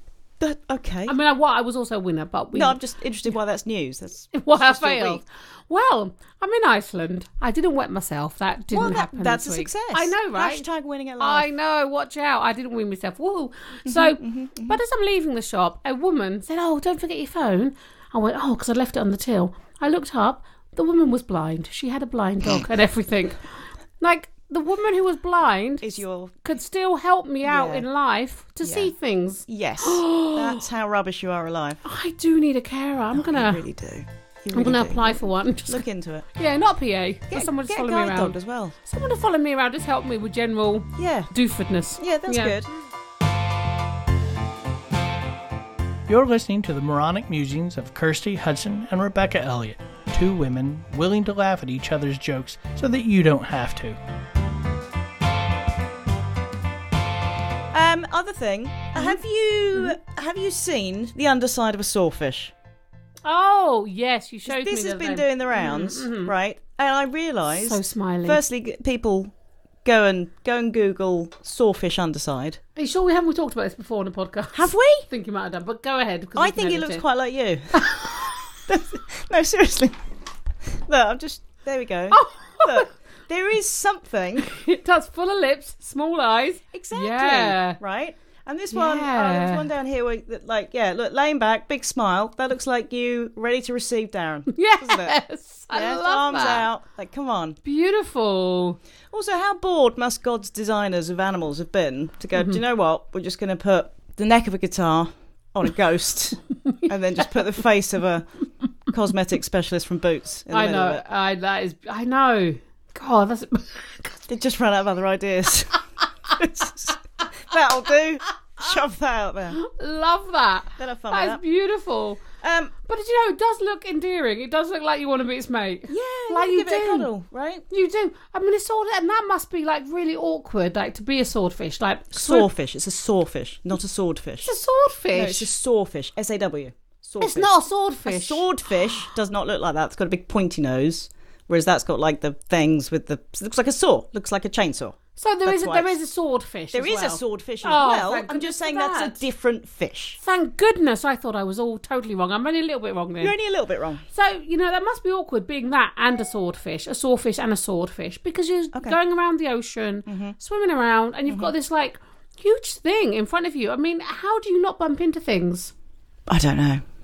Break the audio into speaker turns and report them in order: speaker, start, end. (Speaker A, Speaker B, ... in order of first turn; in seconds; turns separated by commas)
Speaker A: 0.4-1.2, Speaker B: 1.1-2.8, Speaker A: 2.5-5.2, Speaker B: 4.3-10.7, Speaker A: 8.7-11.5, Speaker B: 11.2-25.9, Speaker A: 13.9-14.8, Speaker A: 25.8-26.4, Speaker B: 26.4-30.7, Speaker A: 27.4-27.9, Speaker A: 28.6-28.9, Speaker A: 29.5-31.8, Speaker B: 31.8-33.6, Speaker A: 33.1-36.3, Speaker B: 34.5-42.6, Speaker A: 37.3-38.8, Speaker A: 41.0-41.3, Speaker A: 42.0-42.7, Speaker C: 46.1-54.0, Speaker A: 57.7-62.5, Speaker B: 63.2-66.3, Speaker A: 64.5-69.3, Speaker B: 67.5-68.4, Speaker A: 69.8-72.6, Speaker B: 72.8-77.0, Speaker A: 74.5-75.1, Speaker A: 76.4-77.7, Speaker B: 77.7-78.4, Speaker A: 78.7-80.0, Speaker A: 80.7-84.5, Speaker B: 82.1-82.9, Speaker B: 84.4-87.8, Speaker A: 86.7-95.2, Speaker B: 88.7-89.7, Speaker B: 94.5-96.7, Speaker A: 95.7-97.6, Speaker B: 97.6-98.8, Speaker A: 99.1-108.3, Speaker A: 108.9-111.0, Speaker B: 110.5-114.2, Speaker A: 114.3-119.6, Speaker B: 119.5-122.2, Speaker A: 120.8-121.4, Speaker A: 122.4-122.7, Speaker B: 122.9-127.1, Speaker A: 125.9-127.7, Speaker B: 127.7-132.5, Speaker A: 132.1-134.6, Speaker B: 134.4-135.5, Speaker A: 135.1-146.0, Speaker B: 137.2-138.5, Speaker B: 145.2-149.2, Speaker A: 146.7-150.2, Speaker B: 150.2-153.3, Speaker A: 153.2-154.0, Speaker B: 154.1-165.7, Speaker A: 160.1-160.3, Speaker A: 161.3-161.5, Speaker A: 166.3-166.8